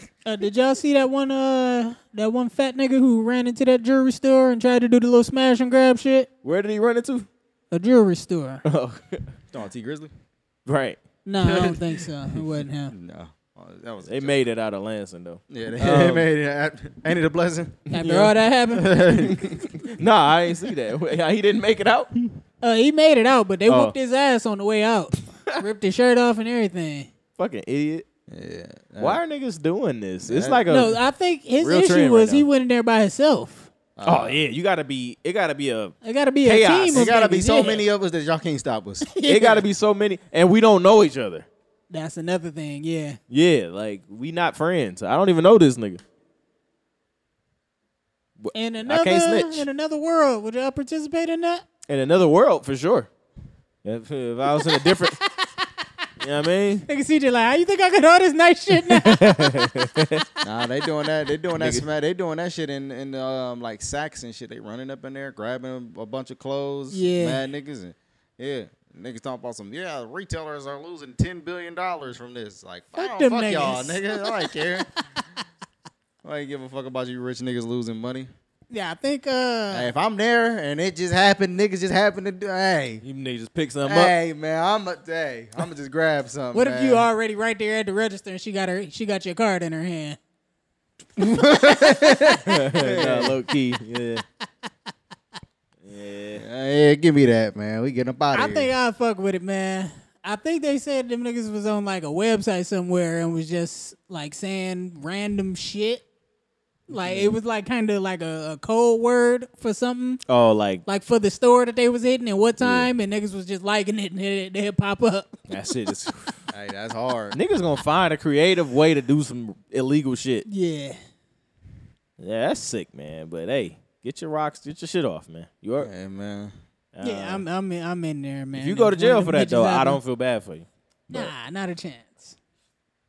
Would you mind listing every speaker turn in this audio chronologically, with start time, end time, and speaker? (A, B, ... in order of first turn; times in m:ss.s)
0:00.2-0:06.3 A
0:06.4-0:07.3 B
0:07.7-0:08.6 A
0:08.6-0:09.3 B
0:09.5-0:10.1 C
0:10.6-0:11.0 B
0:11.2-0:12.9 A
0:12.9-0:14.4 C
0:14.0-0:16.3 B
0:15.5-0:17.8 C
0:17.9-0:19.3 A
0:17.9-0:18.4 B
0:18.7-0:19.8 C
0:19.2-0:22.2 B
0:22.6-0:27.1 A
0:23.7-0:23.9 B
0:27.4-0:28.0 B
0:28.3-0:29.2 C
0:29.0-0:31.0 B
0:30.2-0:30.6 C
0:30.7-0:33.7 A
0:31.6-0:32.4 B
0:34.0-0:34.4 C
0:34.0-0:37.1 B
0:36.0-0:37.8 A
0:36.9-0:39.1 C
0:39.0-0:39.6 A
0:39.2-0:41.5 B
0:41.9-0:43.2 A
0:43.3-0:46.0 B
0:48.4-0:49.7 B
0:48.5-0:51.6 A
0:51.9-0:53.1 B
0:53.8-0:55.2 B
0:54.5-0:55.9 A
0:56.2-0:56.9 B
0:56.9-1:00.2 A
0:58.8-1:00.2 B
1:00.4-1:14.9 C
1:01.6-1:01.8 B
1:06.9-1:07.4 A
1:13.0-1:14.8 A
1:16.2-1:18.3 C
1:18.7-1:19.9 A
1:19.7-1:23.0 C
1:23.0-1:24.1 B
1:23.8-1:27.1 C
1:26.5-1:30.2 A
1:31.2-1:33.4 C
1:31.6-1:32.2 A
1:32.4-1:34.2 B
1:35.8-1:36.4 B
1:36.3-1:38.7 C
1:38.3-1:46.0 A
1:46.9-1:50.2 A
1:50.3-1:50.8 B
1:50.8-1:55.4 A
1:52.6-1:52.9 B
1:55.5-1:56.4 B
1:56.5-1:57.4 C
1:57.3-2:00.4 B
2:00.4-2:01.0 A
2:02.2-2:05.9 B
2:05.8-2:06.5 C
2:06.9-2:07.4 B
2:07.0-2:10.0 A
2:08.5-2:11.3 B
2:11.1-2:12.4 A